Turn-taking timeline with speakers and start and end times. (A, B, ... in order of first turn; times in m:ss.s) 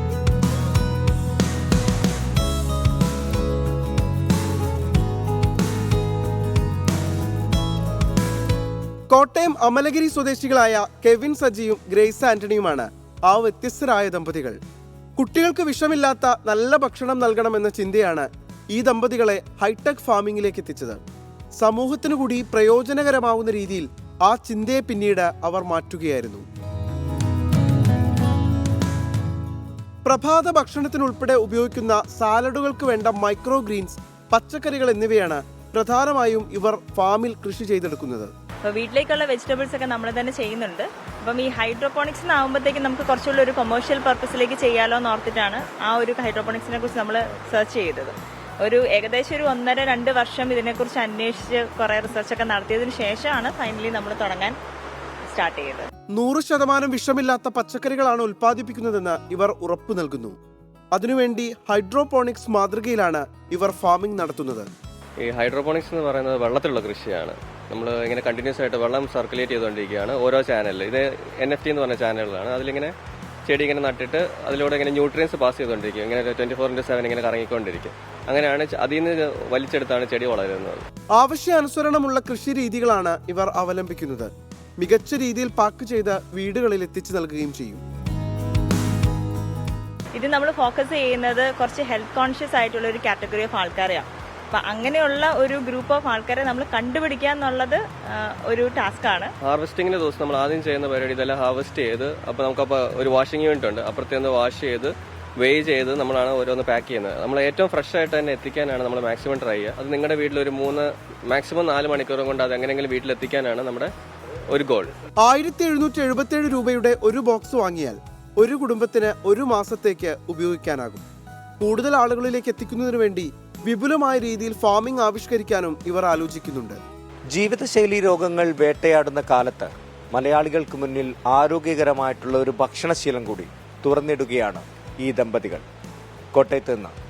0:09.1-0:14.6 A
0:15.2-0:21.0 A
0:21.6-0:26.4 A
0:30.0-0:38.3 A
0:38.6-0:54.6 B
0:55.3-0:55.9 B
0:56.1-1:00.4 A
1:00.9-1:04.7 A
1:05.2-1:12.9 C
1:13.4-1:20.8 C
1:21.2-1:27.8 A
1:30.2-1:39.3 B
1:39.4-1:53.9 C
1:54.5-1:54.9 C
1:55.2-2:01.0 A
2:01.6-2:06.8 A
2:07.3-2:15.6 D
2:16.3-2:17.0 D